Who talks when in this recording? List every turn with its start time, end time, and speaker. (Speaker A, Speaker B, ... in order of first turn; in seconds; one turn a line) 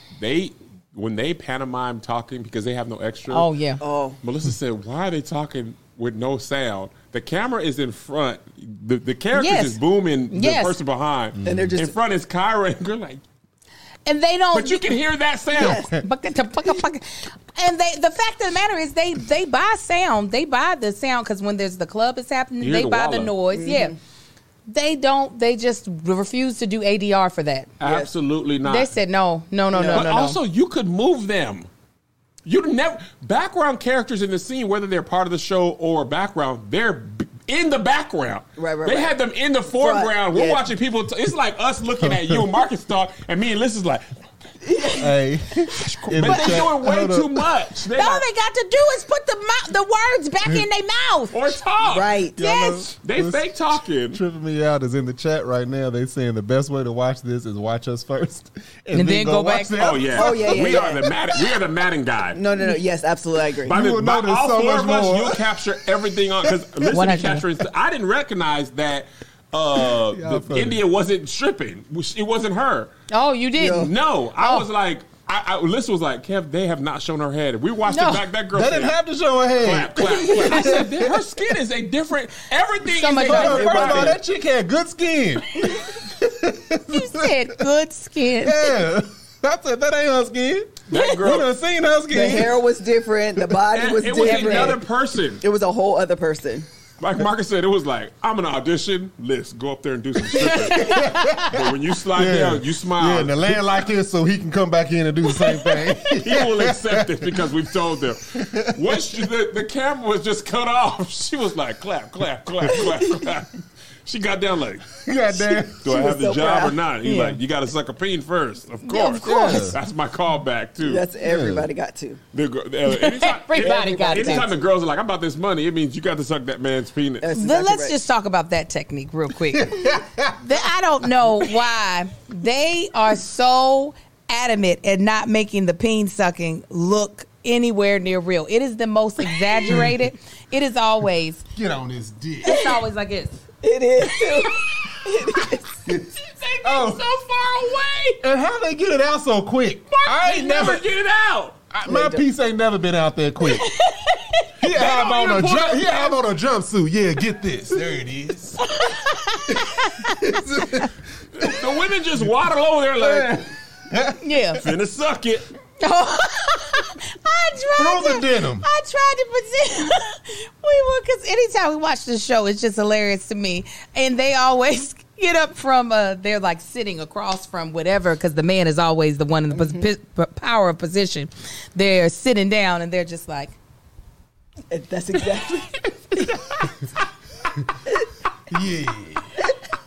Speaker A: 0.2-3.5
Speaker B: 3.3-3.8
Speaker C: 3.8-4.2
Speaker A: 4.2-13.2
Speaker B: 9.3-9.8
Speaker B: 10.3-10.7
Speaker D: 11.4-11.7
Speaker C: 11.4-11.9
Speaker B: 14.1-14.9
Speaker A: 14.5-15.9
Speaker C: 15.6-15.9
Speaker D: 15.6-16.0
Speaker B: 15.9-23.9
Speaker A: 22.6-23.3
Speaker C: 23.6-23.9
Speaker B: 24.7-27.7
Speaker A: 27.8-28.9
Speaker C: 27.8-28.1
Speaker B: 28.6-30.4
Speaker C: 29.7-30.1
Speaker A: 29.8-31.7
Speaker A: 32.4-44.0
Speaker C: 38.6-39.1
Speaker C: 39.7-40.7
Speaker D: 42.0-42.4
Speaker C: 44.6-45.1
Speaker D: 44.9-47.5
Speaker A: 45.9-48.2
Speaker B: 46.2-46.6
Speaker B: 47.9-51.5
Speaker C: 48.0-48.2
Speaker A: 51.3-52.2
Speaker C: 51.8-52.4
Speaker D: 52.4-53.5
Speaker B: 52.4-52.9
Speaker A: 52.9-54.2
Speaker D: 54.1-61.1
Speaker B: 58.9-60.0
Speaker A: 59.8-62.4
Speaker C: 60.1-61.1
Speaker C: 62.3-63.7
Speaker A: 63.6-72.9
Speaker D: 63.7-65.4
Speaker D: 66.4-66.9
Speaker B: 66.9-67.5
Speaker D: 69.9-70.8
Speaker B: 73.1-74.7
Speaker C: 73.6-73.9
Speaker A: 73.7-79.0
Speaker B: 77.8-78.3
Speaker D: 78.5-81.2
Speaker A: 79.6-84.2
Speaker B: 80.3-80.7
Speaker B: 82.9-83.9
Speaker D: 83.2-87.6
Speaker C: 83.2-84.2
Speaker B: 86.9-88.7
Speaker D: 88.4-92.6
Speaker A: 90.9-91.5
Speaker C: 92.1-94.8
Speaker A: 93.7-95.4
Speaker B: 94.1-94.8
Speaker C: 95.4-96.7
Speaker A: 97.0-103.6
Speaker B: 100.3-101.4
Speaker D: 100.8-107.5
Speaker A: 106.1-115.0
Speaker D: 108.3-109.0
Speaker D: 115.0-116.0
Speaker A: 115.8-121.0
Speaker C: 115.8-116.8
Speaker B: 117.0-117.4
Speaker B: 118.8-119.7
Speaker D: 119.2-119.8
Speaker C: 120.8-122.2
Speaker D: 121.2-121.7
Speaker A: 122.3-127.3
Speaker B: 122.8-124.5
Speaker C: 123.5-124.6
Speaker C: 127.2-128.0
Speaker B: 127.3-129.9
Speaker D: 129.5-130.5
Speaker B: 130.4-141.4
Speaker D: 139.6-140.0
Speaker D: 141.6-142.7
Speaker B: 142.4-143.3
Speaker C: 143.6-145.6
Speaker D: 145.8-146.1
Speaker A: 146.1-148.2
Speaker D: 146.6-147.0
Speaker D: 148.2-150.8
Speaker A: 149.9-151.6
Speaker D: 151.7-153.7
Speaker C: 151.8-152.2
Speaker B: 153.5-154.5
Speaker D: 154.6-158.6
Speaker A: 154.7-156.1
Speaker B: 158.6-160.4
Speaker D: 159.5-161.7
Speaker A: 161.4-163.4
Speaker D: 163.0-164.6
Speaker B: 164.2-164.6
Speaker A: 164.6-165.4
Speaker B: 165.8-183.6
Speaker D: 167.8-168.7
Speaker C: 179.5-179.9
Speaker C: 184.7-186.4
Speaker D: 188.5-189.4